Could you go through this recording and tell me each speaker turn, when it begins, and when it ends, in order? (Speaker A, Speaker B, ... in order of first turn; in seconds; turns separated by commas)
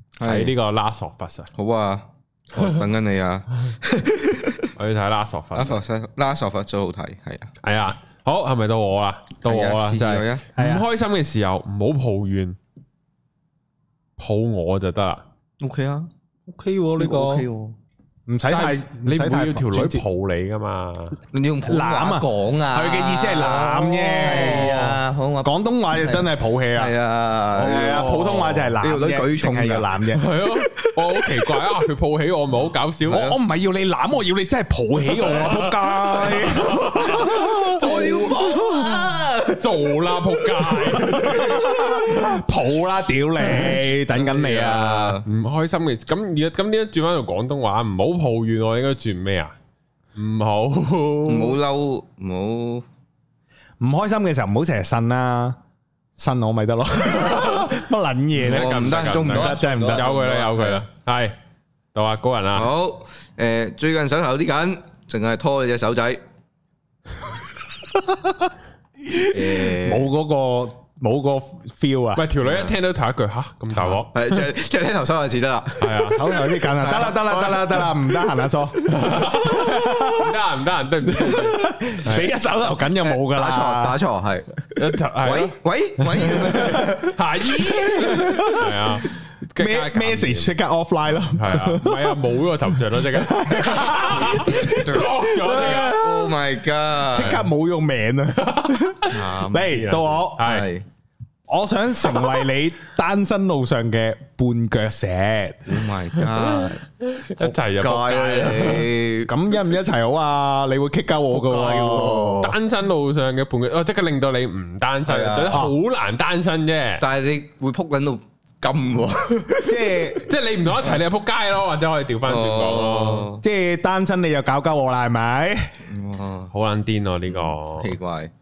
Speaker A: 0.2-0.5, Speaker B: 0.2-1.5, Speaker A: 1.6-4.7, Speaker B: 4.8-5.8, Speaker A: 5.5-7.5, Speaker B: 7.6-12.6, Speaker A: 9.4-10.5, Speaker C: 10.6-10.8, Speaker B: 14.2-15.2, Speaker A: 15.6-16.1, Speaker C: 16.5-17.4, Speaker A: 16.9-17.8, Speaker C: 18.3-20.0, Speaker B: 18.5-21.2, Speaker A: 21.3-30.1, Speaker C: 21.6-26.9, Speaker B: 24.2-25.0, Speaker C: 27.5-30.3, Speaker B: 27.6-28.7, Speaker B: 30.1-33.3, Speaker A: 30.8-31.2, Speaker A: 33.1-33.4, Speaker C: 33.1-39.1, Speaker B: 35.1-38.6, Speaker A: 37.7-39.9, Speaker B: 39.5-42.1, Speaker C: 41.1-45.2, Speaker A: 43.6-45.2, Speaker B: 45.2-49.5, Speaker B: 50.1-51.6, Speaker A: 51.3-52.9, Speaker C: 53.8-55.6, Speaker C: 56.2-60.0, Speaker B: 58.4-61.4, Speaker A: 58.4-60.8, Speaker B: 61.9-62.7, Speaker A: 62.5-66.2, Speaker C: 67.8-68.5, Speaker C: 69.0-72.2, Speaker A: 69.3-70.1, Speaker B: 72.1-74.1, Speaker A: 72.4-72.7, Speaker A: 73.7-78.0, Speaker B: 75.8-76.2, Speaker C: 76.0-80.4, Speaker B: 78.8-82.3, Speaker C: 81.0-84.0, Speaker A: 83.0-84.6, Speaker B: 84.8-85.5, Speaker A: 85.2-87.2, Speaker B: 86.2-90.5, Speaker C: 86.2-88.9, Speaker C: 89.6-96.4, Speaker B: 91.3-96.0, Speaker A: 94.3-97.5, Speaker C: 97.0-100.5, Speaker B: 98.4-100.7, Speaker A: 99.1-99.8, Speaker A: 100.4-100.8, Speaker C: 101.5-105.7, Speaker A: 105.7-106.8, Speaker B: 106.1-108.9, Speaker A: 107.4-109.3, Speaker C: 109.3-112.5, Speaker A: 111.3-112.5, Speaker B: 112.4-117.0, Speaker A: 115.0-115.7, Speaker A: 117.0-120.0, Speaker C: 119.6-120.3, Speaker B: 120.2-123.3, Speaker A: 122.2-123.4, Speaker C: 123.4-125.8, Speaker A: 125.9-126.5, Speaker B: 126.5-127.9, Speaker A: 127.3-128.3